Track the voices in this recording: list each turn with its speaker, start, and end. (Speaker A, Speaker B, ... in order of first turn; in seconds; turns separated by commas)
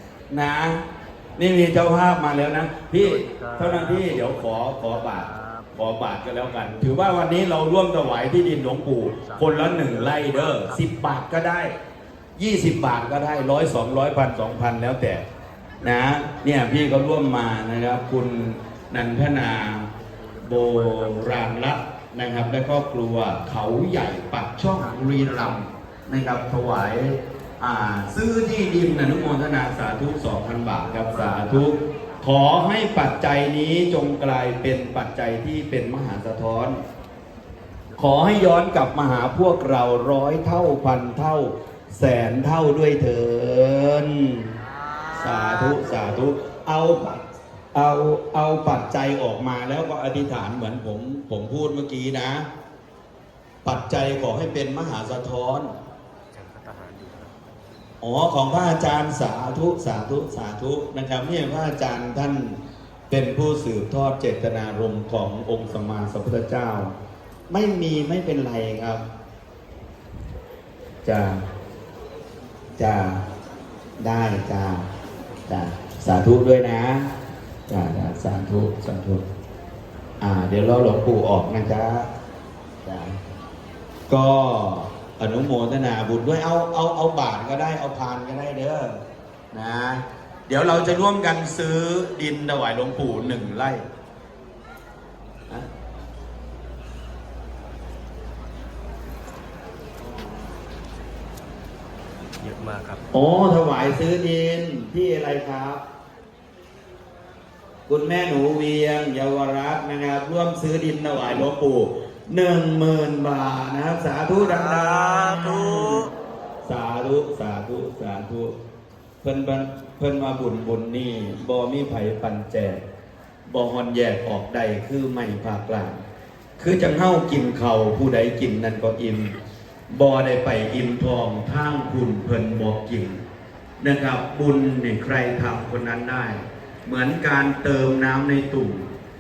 Speaker A: 0.3-0.8, Speaker A: 1.4-11.7, Speaker B: 3.0-5.8, Speaker B: 9.2-10.8, Speaker A: 12.4-15.2, Speaker A: 15.8-19.9, Speaker A: 20.4-36.8, Speaker B: 31.1-31.4, Speaker A: 38.0-44.5, Speaker A: 45.1-47.2, Speaker A: 47.7-52.5, Speaker A: 53.6-55.7, Speaker B: 56.3-57.4, Speaker A: 58.0-62.6, Speaker A: 63.1-66.9, Speaker A: 67.5-69.0, Speaker A: 71.0-71.4, Speaker A: 72.8-73.2, Speaker A: 74.0-74.9, Speaker A: 75.5-77.1, Speaker A: 77.7-79.2, Speaker A: 80.2-82.1, Speaker A: 82.8-83.2, Speaker A: 84.1-89.0, Speaker A: 89.5-93.8, Speaker B: 102.4-103.0, Speaker A: 103.1-105.8, Speaker A: 107.9-116.1, Speaker A: 116.6-118.5, Speaker A: 119.2-122.8, Speaker A: 123.5-126.0, Speaker A: 126.6-129.3, Speaker A: 129.9-133.2, Speaker A: 133.8-138.9